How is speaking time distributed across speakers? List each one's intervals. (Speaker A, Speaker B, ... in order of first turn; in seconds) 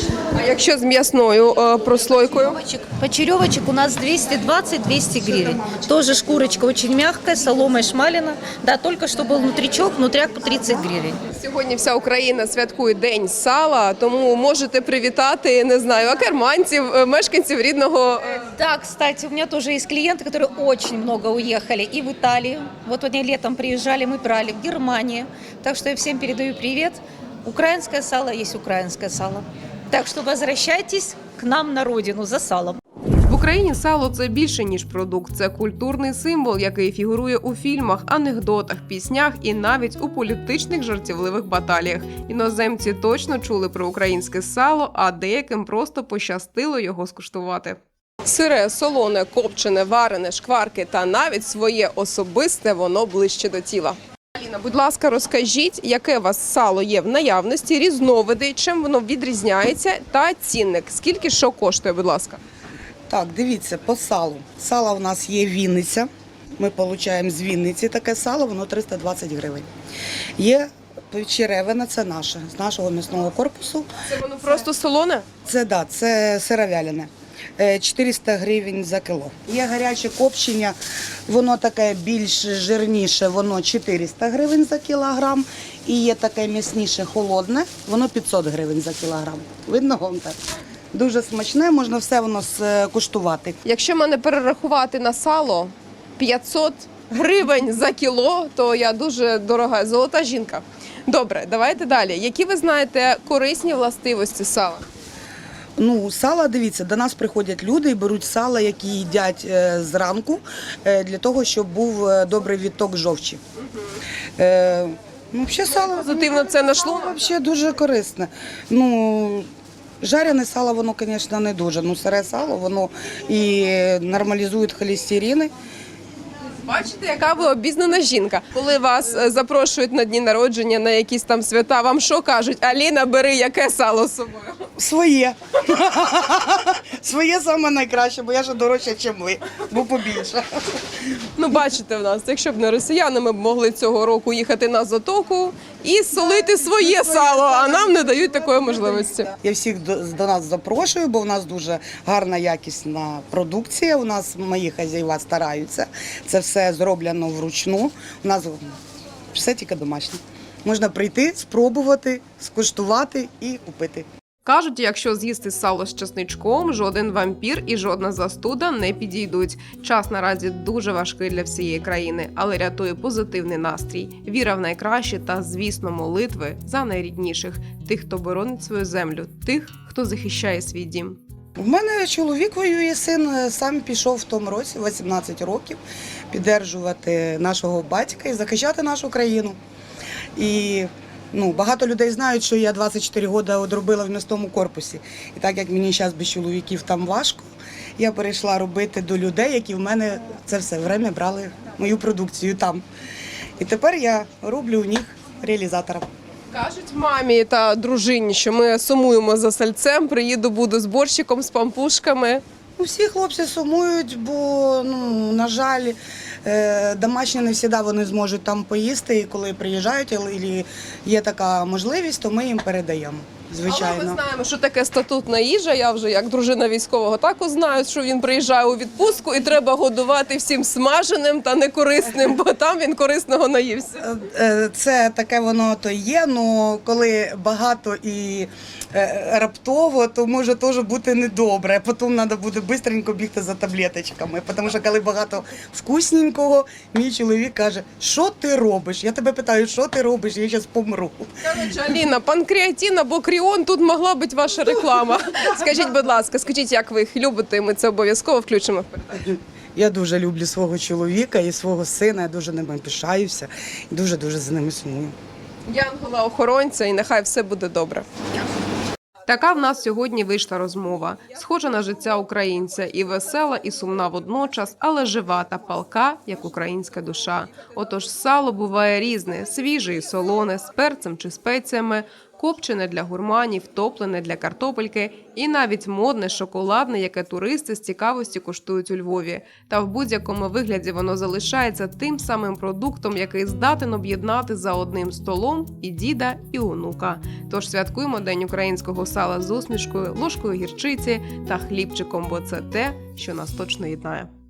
Speaker A: 0.3-2.6, 11.3-18.4, 33.3-62.4, 74.1-75.2, 93.7-104.8, 115.7-117.2, 126.6-134.7, 141.4-149.3, 164.4-181.2, 206.5-212.4, 223.7-234.0, 251.4-259.3, 265.7-268.1, 269.3-304.3
Speaker B: 2.4-11.2, 18.4-32.8
Speaker C: 63.1-69.7, 70.4-73.9, 75.5-80.8, 81.3-90.4, 90.9-93.6, 105.8-113.4, 114.4-119.5, 120.0-125.5, 134.8-140.9, 146.2-158.7, 159.3-164.1, 181.6-185.8, 186.3-189.6, 190.4-202.8, 203.6-206.1, 212.8-224.2, 234.0-251.3, 259.3-265.1